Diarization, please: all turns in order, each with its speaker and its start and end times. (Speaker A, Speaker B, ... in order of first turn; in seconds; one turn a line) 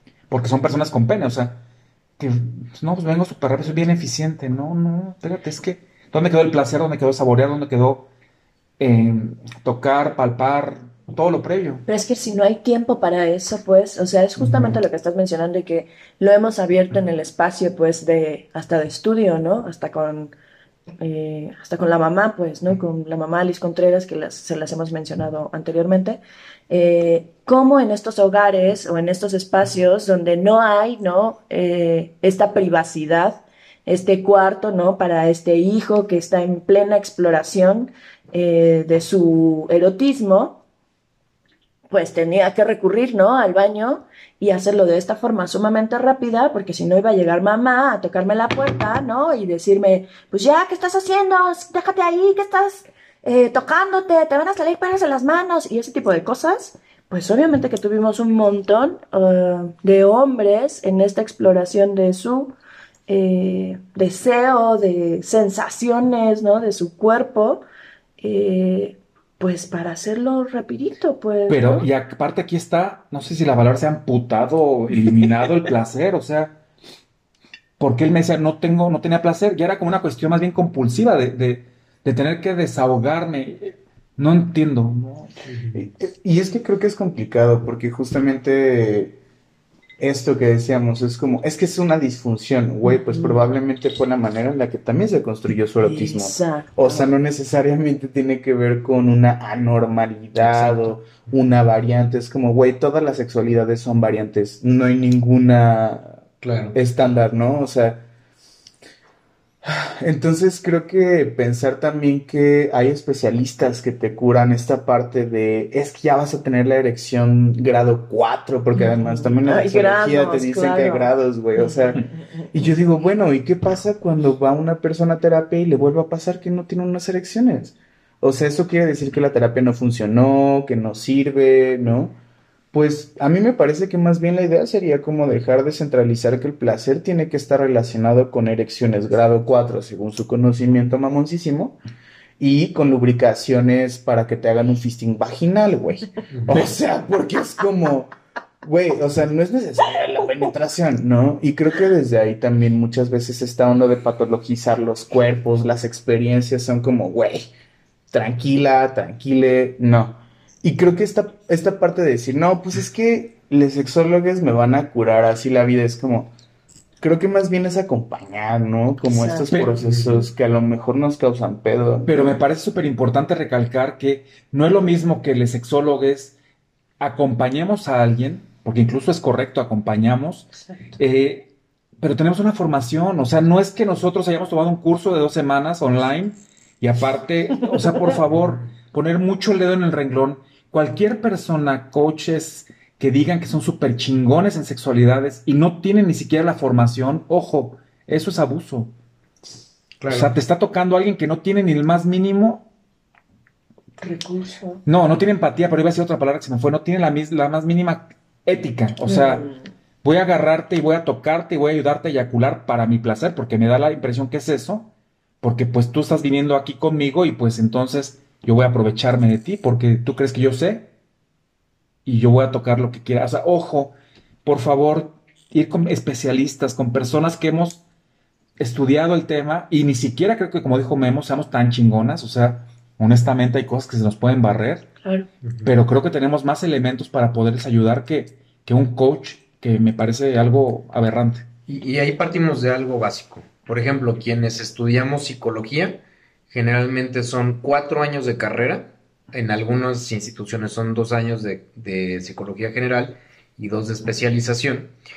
Speaker A: 0.3-1.6
Speaker A: 2.2-8.1
Speaker A: 8.8-11.8
Speaker B: 11.9-20.3
Speaker B: 21.0-40.6
Speaker B: 41.9-62.5
Speaker B: 63.1-67.6
Speaker B: 68.2-71.9
Speaker A: 71.5-76.6
Speaker A: 77.8-85.3
Speaker C: 85.5-85.8
Speaker D: 85.7-89.2
Speaker D: 90.0-106.2
Speaker B: 92.9-93.4
Speaker B: 95.8-97.0
Speaker C: 100.4-101.0
Speaker C: 106.4-106.8
Speaker D: 106.7-108.1
Speaker D: 109.6-132.2
Speaker B: 118.8-122.2
Speaker D: 132.7-141.8
Speaker D: 142.4-148.1
Speaker C: 146.3-146.6
Speaker D: 148.6-157.5
Speaker D: 158.1-166.3
Speaker D: 167.0-172.3
Speaker B: 169.1-169.5
Speaker C: 169.7-170.3
Speaker A: 172.1-176.4
Speaker A: 177.0-181.5
Speaker A: 182.0-198.9
Speaker C: 200.0-200.3
Speaker A: 200.1-202.7
Speaker B: 204.0-204.8
Speaker A: 204.9-209.5
Speaker B: 209.1-209.6
Speaker A: 210.0-214.9
Speaker A: 215.4-220.9
Speaker A: 222.1-223.9
Speaker A: 224.4-227.8
Speaker A: 228.6-234.9
Speaker A: 235.7-241.5
Speaker C: 241.7-254.9